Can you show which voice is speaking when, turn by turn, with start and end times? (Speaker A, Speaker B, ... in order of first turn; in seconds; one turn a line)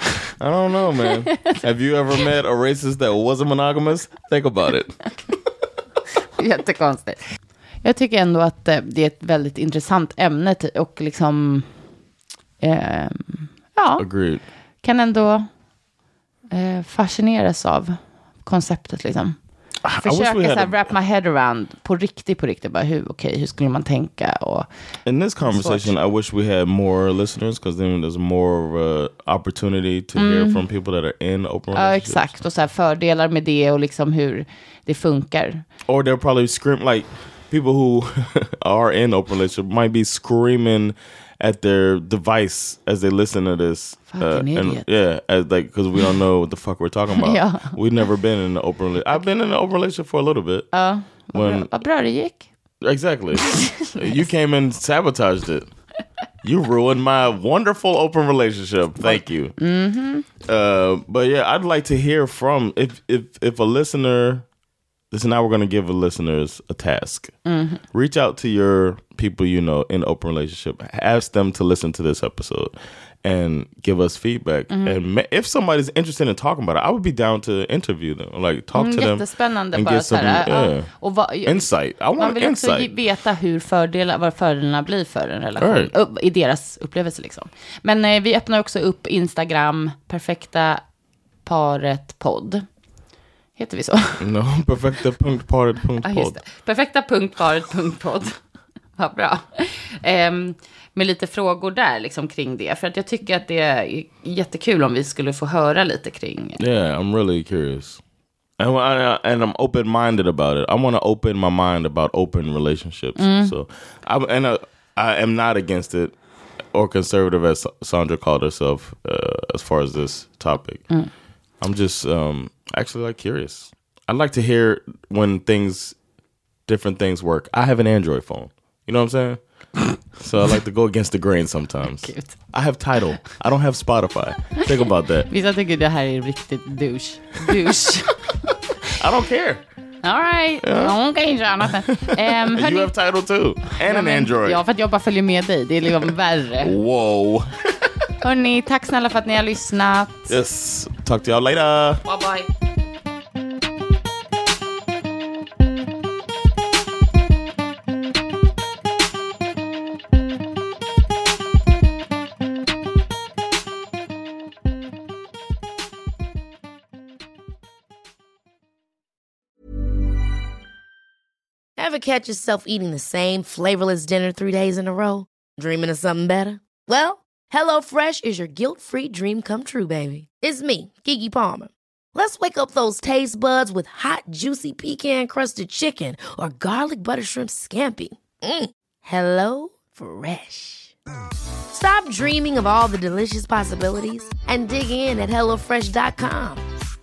Speaker A: 0.4-5.0
Speaker B: 1.3-1.6
Speaker B: 6.4-7.2
Speaker B: 7.8-11.7
Speaker B: 12.6-14.1
Speaker A: 14.0-14.4
Speaker B: 14.8-15.5
Speaker B: 16.5-19.4
Speaker A: 19.8-20.9
Speaker B: 19.9-24.7
Speaker A: 25.1-32.3
Speaker B: 25.4-25.9
Speaker B: 30.1-30.6
Speaker B: 31.7-35.6
Speaker A: 35.9-50.7
Speaker B: 44.1-44.9
Speaker B: 47.2-47.7
Speaker B: 50.7-52.5
Speaker A: 51.3-51.7
Speaker A: 52.8-55.7
Speaker B: 53.4-54.2
Speaker A: 56.4-59.5
Speaker B: 59.0-60.3
Speaker A: 60.4-64.4
Speaker A: 65.1-67.3
Speaker B: 67.5-67.8
Speaker A: 67.9-80.9
Speaker B: 74.7-75.0
Speaker B: 78.7-90.8
Speaker A: 81.4-82.9
Speaker A: 85.6-85.9
Speaker B: 91.4-92.6
Speaker B: 93.6-94.2
Speaker A: 94.2-96.4
Speaker B: 96.0-98.3
Speaker B: 99.0-106.6
Speaker A: 106.6-108.0
Speaker A: 108.6-116.1
Speaker B: 113.2-113.5
Speaker A: 116.7-120.8
Speaker A: 121.6-126.0
Speaker A: 126.7-129.4
Speaker A: 130.2-135.3
Speaker B: 131.8-132.3
Speaker B: 135.3-138.2
Speaker A: 138.9-139.6
Speaker B: 140.0-142.9
Speaker A: 140.6-140.9
Speaker A: 141.6-144.6
Speaker B: 143.7-146.7
Speaker A: 146.6-148.0
Speaker B: 148.2-150.3
Speaker A: 150.3-152.0
Speaker B: 152.0-152.5
Speaker C: 171.8-190.9
Speaker C: 191.7-196.6